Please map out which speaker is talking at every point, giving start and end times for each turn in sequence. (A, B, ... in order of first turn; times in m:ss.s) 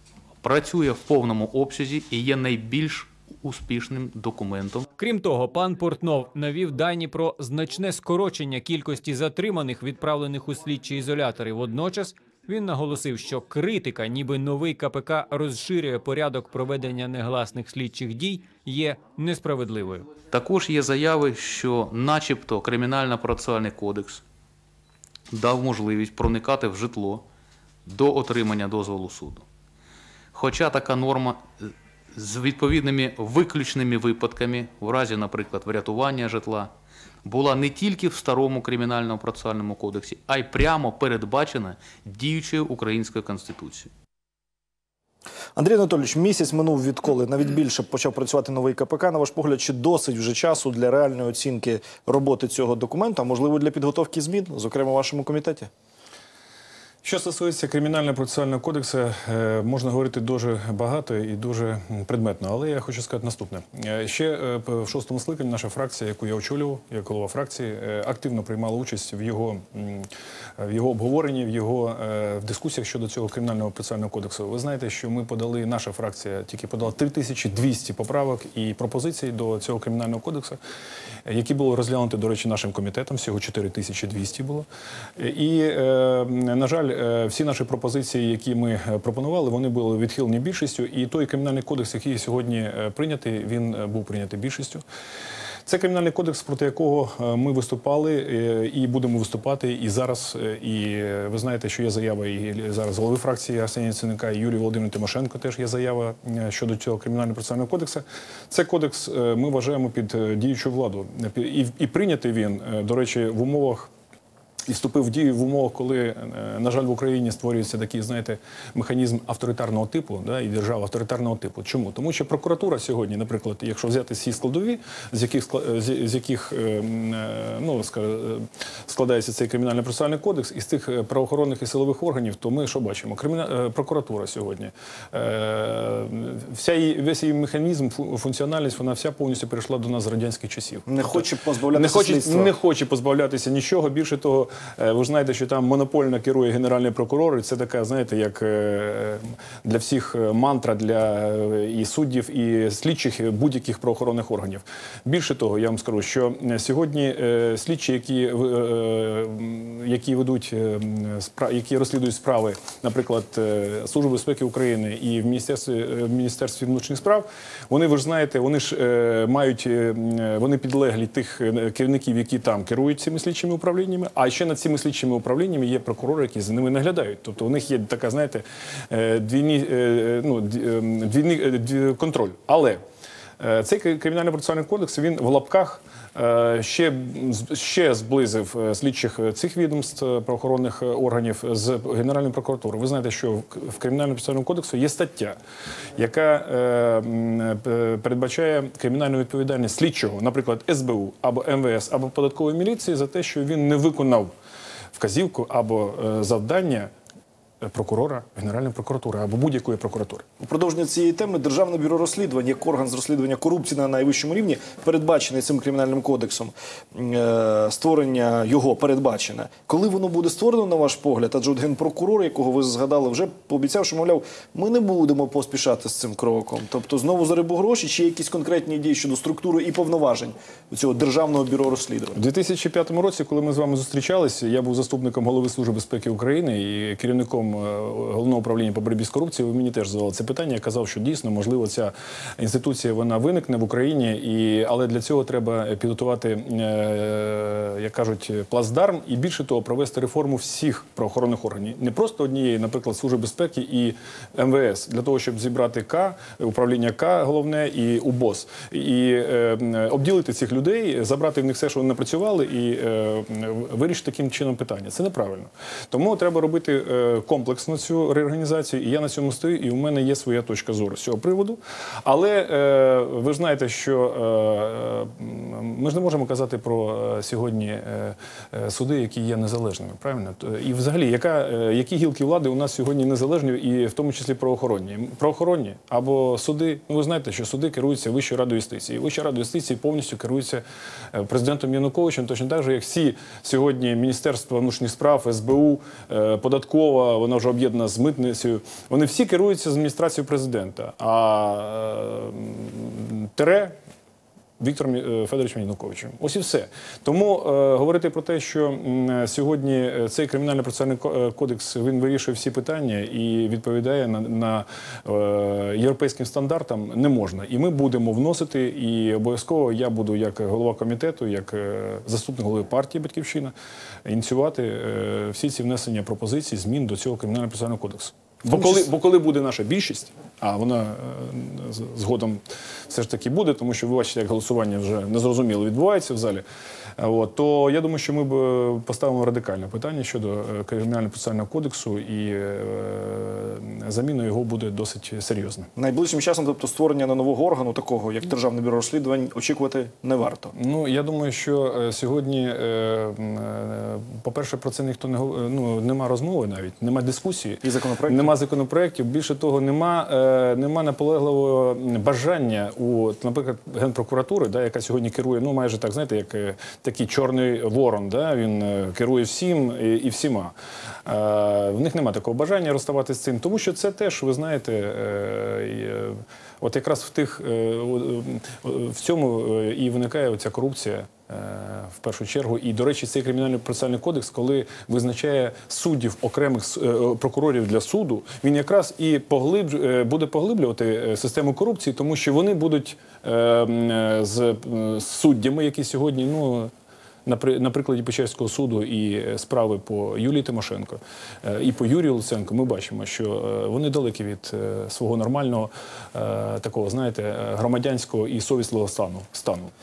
0:00.4-0:04.9 A
0:05.0-0:20.1 B
0:20.3-0:24.2 A
0:25.3-0:27.2 A
0:27.8-0:29.4 A
0:30.3-0:36.7 A
0:37.2-0:43.9 A
0:45.6-0:55.7 C
0:57.0-1:20.6 D
1:21.2-1:34.8 D
1:35.6-1:53.9 D
1:54.7-3:02.8 D
2:20.9-2:22.5 C
3:03.4-3:15.4 D
3:16.0-3:24.3 D
3:24.9-3:26.9 D
3:27.6-3:30.2 D
3:30.4-3:52.2 C
3:52.1-5:03.8 D
5:04.6-5:23.5 D
5:24.0-5:36.4 D
5:28.5-5:28.8 C
5:37.0-5:45.7 D
5:45.8-5:50.5 C
5:50.5-6:10.5 D
5:57.6-5:58.3 C
6:11.0-6:36.7 D
6:37.2-6:49.7 D